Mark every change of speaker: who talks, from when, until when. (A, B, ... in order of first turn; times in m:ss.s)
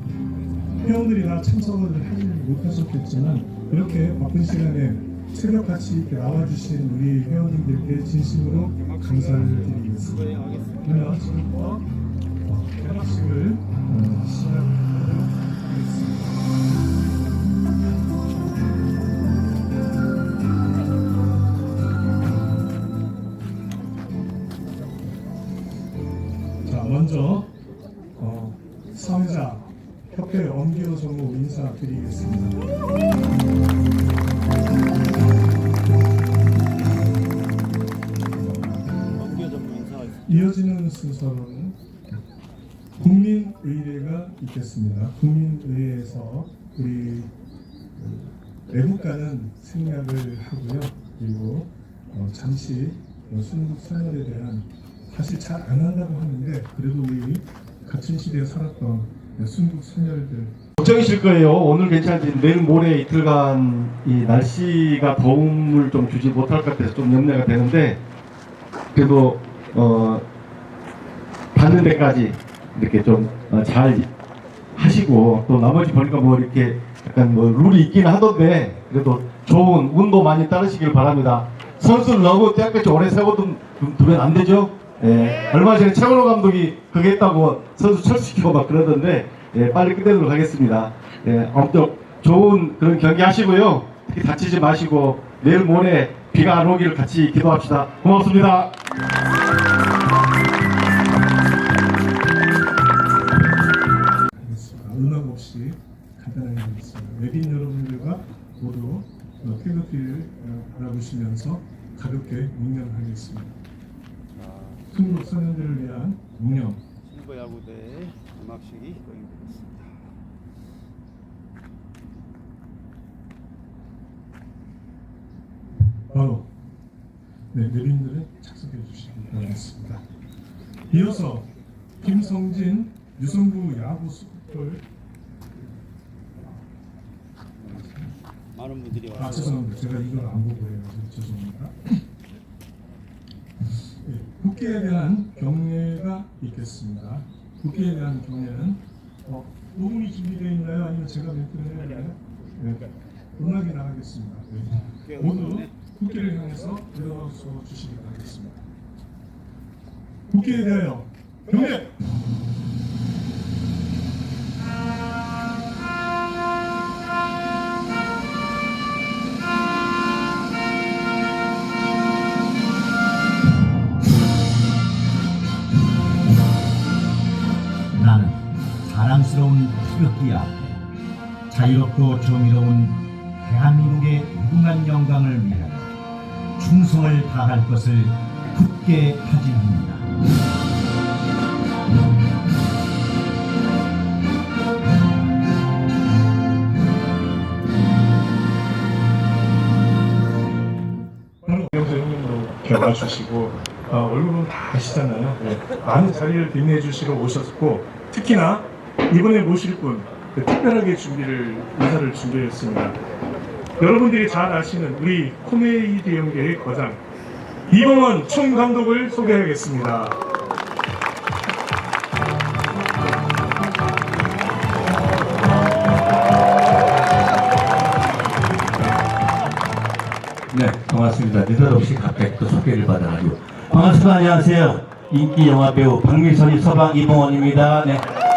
0:00.8-0:11.9 A
0:08.7-0:11.0 B
0:12.4-0:15.3 A
0:26.6-0:27.5 A
0:28.2-0:32.6 A
0:39.2-0:40.5 B
0:40.3-0:41.8 A
0:43.0-0:47.3 A
0:48.0-1:00.6 A
1:00.8-1:08.0 C
1:08.9-1:10.2 C
1:11.5-1:14.1 C
1:14.8-1:38.8 C
1:44.4-1:53.6 A
1:54.4-1:55.2 B
1:54.9-1:56.8 A
1:57.0-1:59.9 B
2:06.1-2:06.5 A
2:07.5-2:10.0 A
2:10.9-2:11.5 A
2:12.0-2:14.8 A
2:17.6-2:19.6 B
2:19.2-2:22.0 A
2:24.0-2:38.6 A
2:34.9-2:35.7 B
2:40.3-2:41.9 A
2:57.9-3:00.8 D
3:01.5-3:05.9 D
3:06.6-3:10.1 D
3:21.4-3:33.0 A
3:33.8-3:37.0 A
3:37.7-3:40.2 A
3:50.5-3:58.1 E